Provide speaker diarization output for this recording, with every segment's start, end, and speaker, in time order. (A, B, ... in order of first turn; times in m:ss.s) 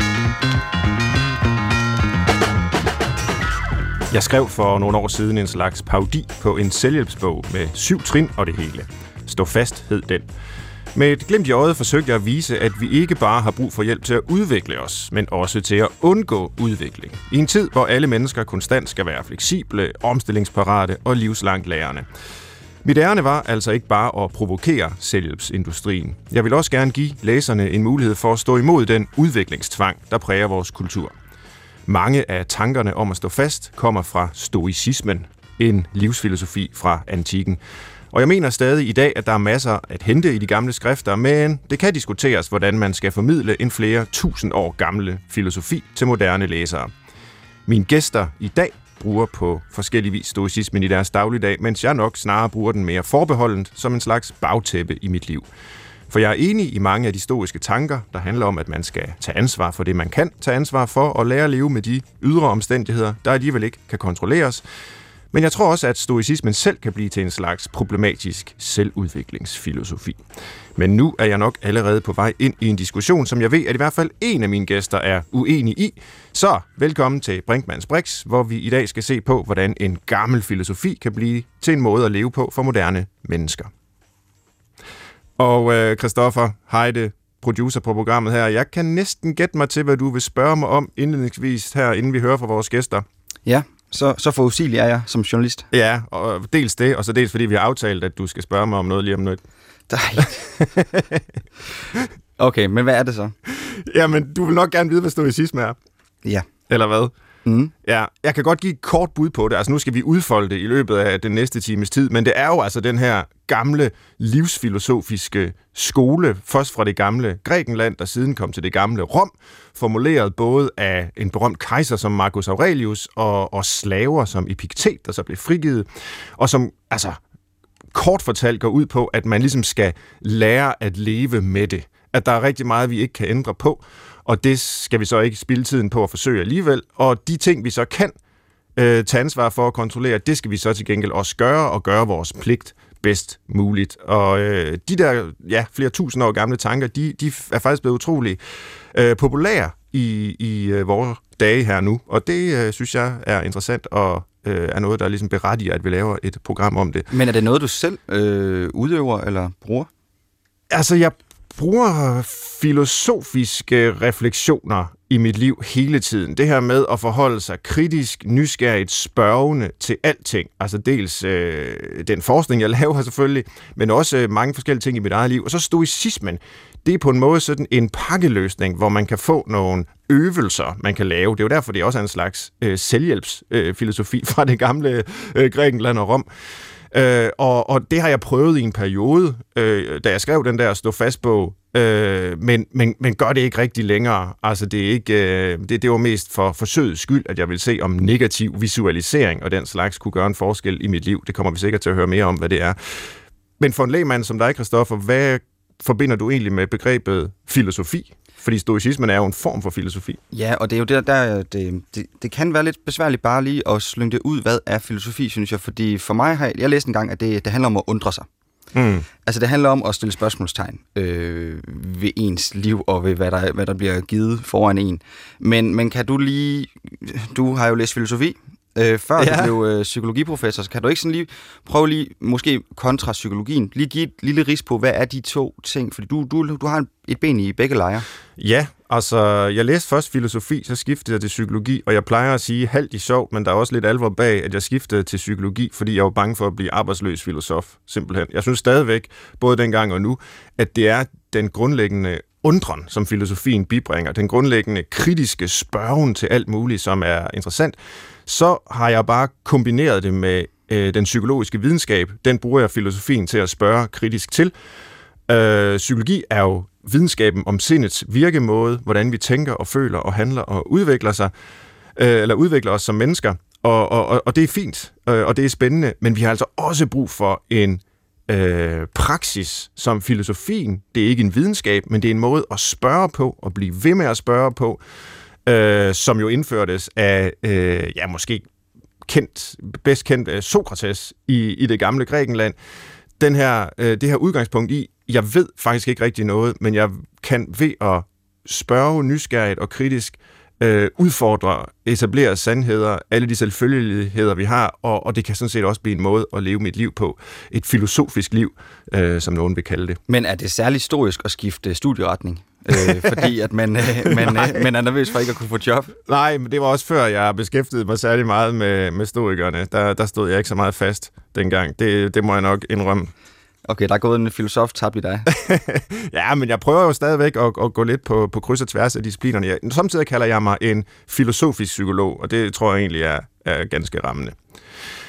0:04.1-0:10.3 A
0:11.0-0:22.1 A
0:22.8-0:31.1 A
0:31.9-0:37.6 A
0:38.1-0:46.9 A
0:47.7-0:55.4 A
0:56.1-1:04.6 A
1:05.3-1:10.2 A
1:10.8-1:23.7 A
1:25.4-1:33.0 A
1:33.4-1:35.7 B
1:35.7-1:39.4 A
1:39.9-1:40.4 B
1:40.2-1:41.0 A
1:42.4-1:43.4 B
1:43.6-1:45.8 A
1:46.7-1:47.1 A
1:47.4-1:47.7 B
1:47.8-2:07.2 A
2:07.9-2:18.1 A
2:18.8-2:28.4 A
2:28.9-2:37.1 A
2:37.1-2:39.9 B
2:40.7-3:06.3 A
3:06.9-3:22.8 A
3:23.6-3:30.2 A
3:30.3-3:38.3 B
3:38.7-3:39.1 A
3:39.2-3:58.0 B
3:49.2-3:49.5 A
3:58.4-4:24.5 A
4:25.3-4:31.3 A
4:32.0-4:44.8 A
4:45.5-4:48.5 A
4:49.1-4:52.6 A
4:53.2-5:10.0 A
5:10.1-5:15.9 B
5:14.1-5:14.4 A
5:16.1-5:23.1 A
5:23.7-5:25.3 B
5:25.3-5:34.4 A